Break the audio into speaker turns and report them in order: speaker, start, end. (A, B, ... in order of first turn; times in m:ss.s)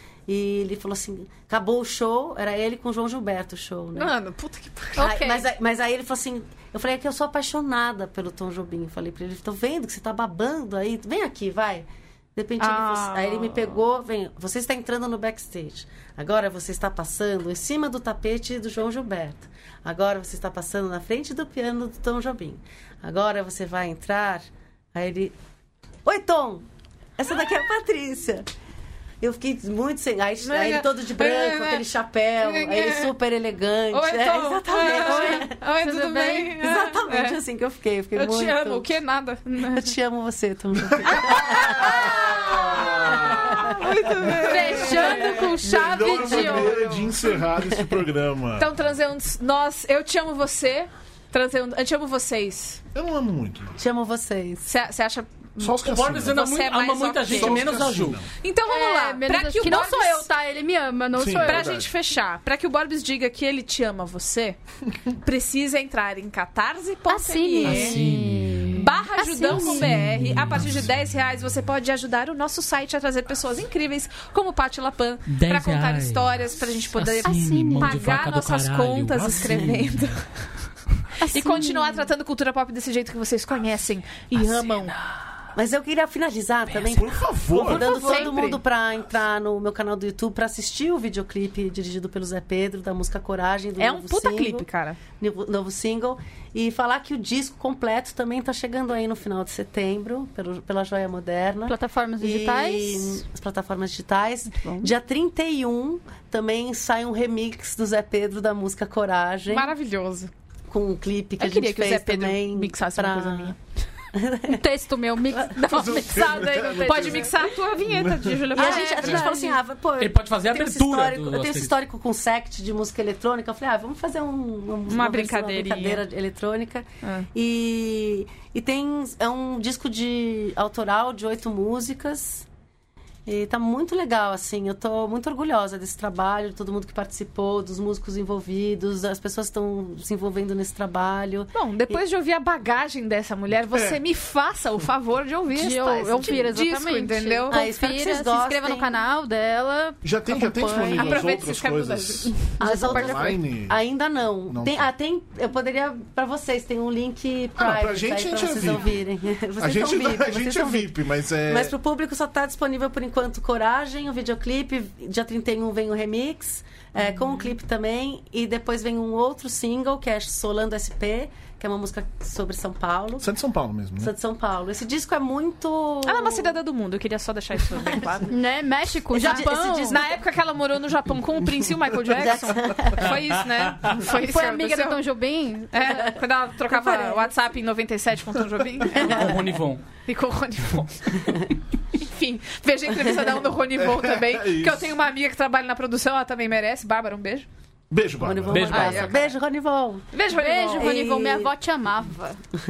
0:00.3-0:04.2 A
0:04.0-0:05.4 B
0:05.0-0:25.4 A
0:05.0-0:05.3 C
0:12.6-0:13.8 B
0:26.0-0:26.7 A
0:27.2-0:28.5 A
0:29.2-0:35.5 A
0:30.4-0:31.8 B
0:32.4-0:33.1 B
0:33.9-0:37.4 B
0:34.8-0:36.7 C
0:36.6-0:38.9 A
0:38.1-0:39.9 B
0:39.6-0:42.1 A
0:41.1-0:47.1 B
0:41.3-0:43.8 D
0:43.1-0:43.8 A
0:44.4-0:46.9 C
0:44.8-0:45.2 A
0:45.6-0:48.7 D
0:48.6-0:52.8 B
0:52.9-0:53.8 D
0:53.8-0:54.7 A
0:54.7-0:55.8 B
0:55.6-0:56.5 D
0:55.8-0:58.2 E
0:56.3-1:00.3 B
0:57.3-0:58.3 D
0:58.7-1:01.8 C
1:01.2-1:01.9 D
1:01.4-1:04.6 B
1:05.2-1:08.0 B
1:07.1-1:10.0 C
1:07.6-1:08.8 E
1:08.7-1:20.3 B
1:09.6-1:10.9 E
1:15.3-1:20.2 E
1:17.2-1:18.1 C
1:21.2-1:22.1 C
1:21.3-1:25.0 B
1:25.6-1:49.7 A
1:26.8-1:28.2 D
1:27.5-1:28.6 B
1:33.8-1:35.0 B
1:41.7-1:43.2 C
1:44.5-1:44.9 C
1:49.5-1:50.3 B
1:50.7-1:53.6 A
1:51.4-1:53.6 B
1:54.1-1:54.6 A
1:54.5-1:57.2 C
1:55.5-1:59.6 B
1:55.7-1:58.5 D
1:58.5-2:12.5 A
1:58.6-1:59.1 C
2:00.0-2:01.7 E
2:04.9-2:06.0 B
2:07.0-2:07.3 B
2:13.3-2:22.0 A
2:21.6-2:27.6 B
2:23.7-2:24.0 D
2:25.5-2:31.0 C
2:27.5-2:29.0 A
2:30.0-2:33.8 D
2:30.4-2:31.2 A
2:31.0-2:32.4 B
2:32.6-2:53.3 A
2:32.6-2:33.4 C
2:34.5-2:34.9 D
2:37.6-2:39.1 D
2:39.6-2:41.8 D
2:53.2-2:54.1 D
2:54.0-2:56.5 A
2:56.0-2:58.3 B
2:57.8-2:58.2 A
2:58.3-3:00.0 C
2:59.1-3:05.0 B
2:59.2-3:00.1 A
3:02.1-3:03.2 A
3:04.0-3:06.2 C
3:05.7-3:09.4 B
3:09.0-3:09.4 A
3:09.0-3:09.8 E
3:10.0-3:11.4 B
3:12.0-3:17.5 B
3:13.8-3:14.9 D
3:17.9-3:18.9 D
3:18.2-3:20.0 A
3:18.5-3:19.1 E
3:18.7-3:19.4 B
3:20.1-3:20.9 B
3:20.3-3:22.4 C
3:20.8-3:21.5 A